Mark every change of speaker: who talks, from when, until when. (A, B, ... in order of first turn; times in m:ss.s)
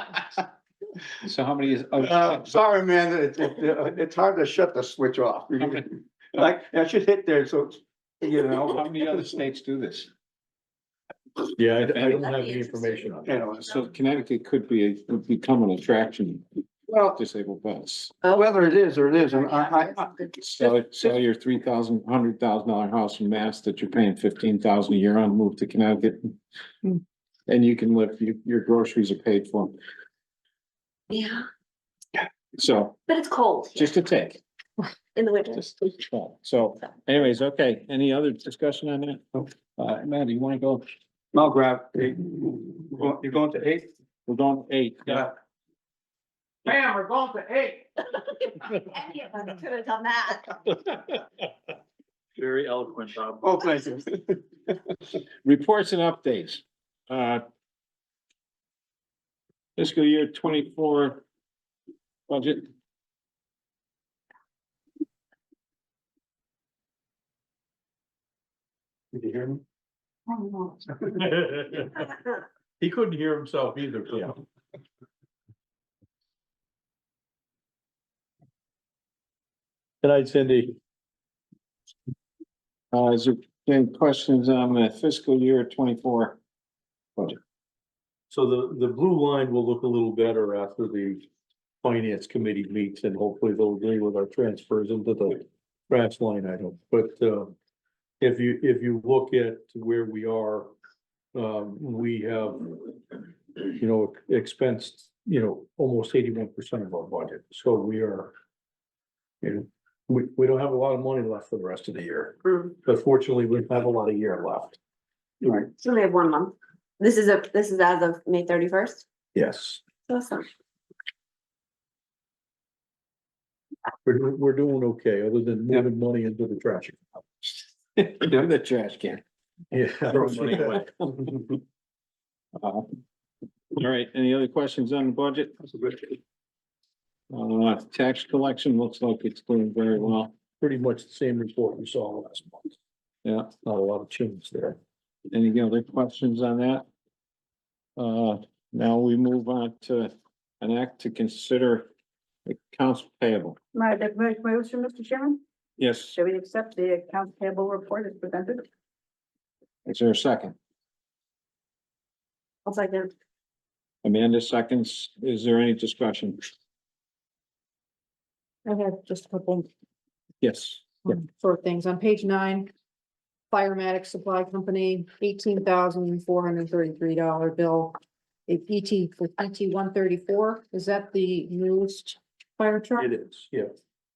0:01.2-0:02.6 A
0:02.0-0:09.2 B
0:05.6-0:05.9 A
0:08.5-0:10.1 A
0:11.5-0:13.4 C
0:12.0-0:13.2 D
0:13.3-0:13.7 B
0:13.6-0:16.4 A
0:16.9-0:17.2 B
0:17.2-0:18.1 A
0:18.2-0:20.1 B
0:19.1-0:20.4 D
0:20.4-0:26.4 A
0:27.5-0:29.8 A
0:31.1-0:31.5 D
0:32.6-0:33.0 A
0:33.1-0:34.0 D
0:33.8-0:34.4 A
0:35.2-0:36.0 D
0:35.6-0:39.2 A
0:39.8-0:40.4 B
0:41.3-0:43.9 B
0:44.3-0:45.3 A
0:46.7-0:47.9 B
0:48.4-0:50.6 D
0:53.2-0:54.8 B
0:55.4-0:57.4 A
0:59.8-1:01.2 A
1:02.3-1:02.7 A
1:11.0-1:12.1 C
1:12.8-1:14.4 C
1:20.0-1:20.8 C
1:22.9-1:26.4 A
1:28.3-1:31.3 C
1:31.8-1:37.6 C
1:38.2-1:40.7 C
1:41.3-1:42.9 C
1:43.8-1:48.3 C
1:49.4-1:54.8 C
1:55.8-1:59.0 D
1:59.4-1:59.8 C
2:00.1-2:00.5 D
2:04.0-2:07.0 C
2:08.0-2:09.2 A
2:09.7-2:10.9 C
2:10.3-2:10.8 A
2:12.6-2:13.0 A
2:13.8-2:15.5 A
2:17.3-2:20.3 A
2:20.6-2:22.7 C
2:23.4-2:24.8 C
2:25.3-2:26.9 A
2:28.0-2:31.9 A
2:32.5-2:33.6 A
2:33.8-2:35.4 E
2:35.8-2:36.1 A
2:36.1-2:38.6 E
2:39.9-2:40.6 A
2:42.7-2:43.1 D
2:44.0-2:46.5 A
2:48.7-2:49.7 F
2:50.4-2:51.2 A
2:51.1-2:52.7 F
2:53.5-2:58.0 F
2:58.5-3:03.1 F
3:03.0-3:03.7 C